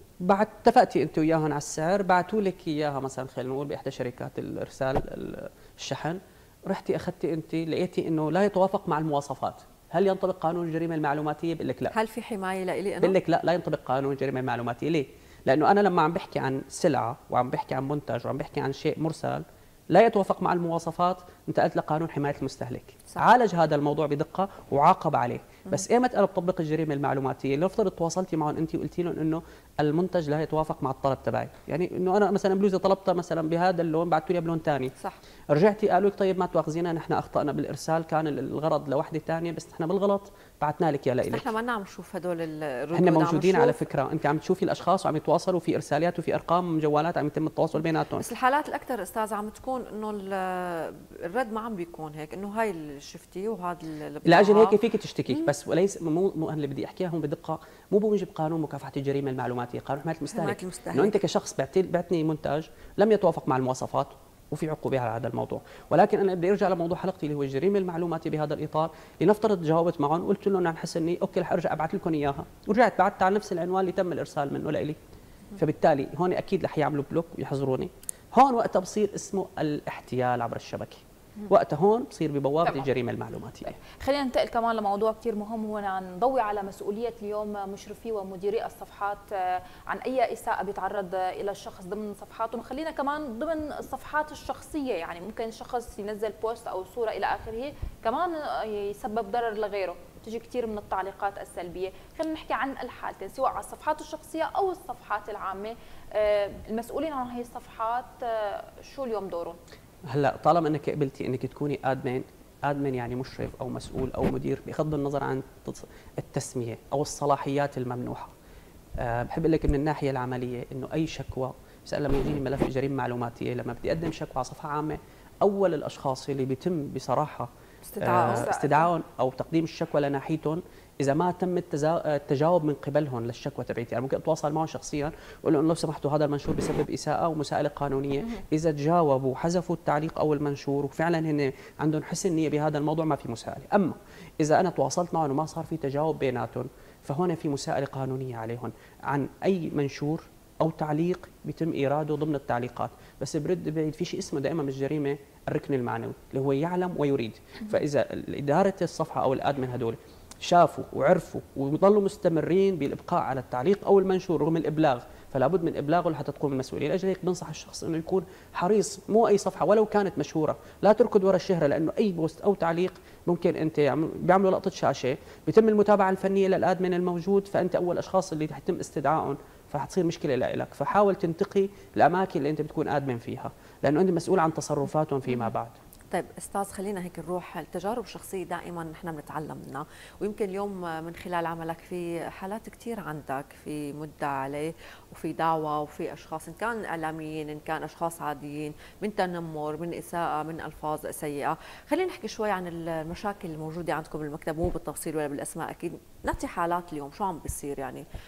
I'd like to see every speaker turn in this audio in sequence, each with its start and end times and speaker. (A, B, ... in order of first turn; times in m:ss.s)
0:00.2-0:11.9 A
0:11.9-0:13.2 B
0:13.0-0:34.9 A
0:35.5-0:41.5 A
0:41.3-0:43.8 B
0:43.0-0:48.3 A
0:48.2-0:54.8 B
0:54.2-1:15.0 A
1:00.3-1:01.2 B
1:15.6-1:23.8 A
1:22.6-1:22.9 C
1:23.8-1:49.6 C
1:50.1-1:58.3 A
1:59.0-2:07.5 A
2:07.9-2:08.5 B
2:08.0-3:05.8 A
2:08.2-2:08.9 C
3:06.1-3:28.0 B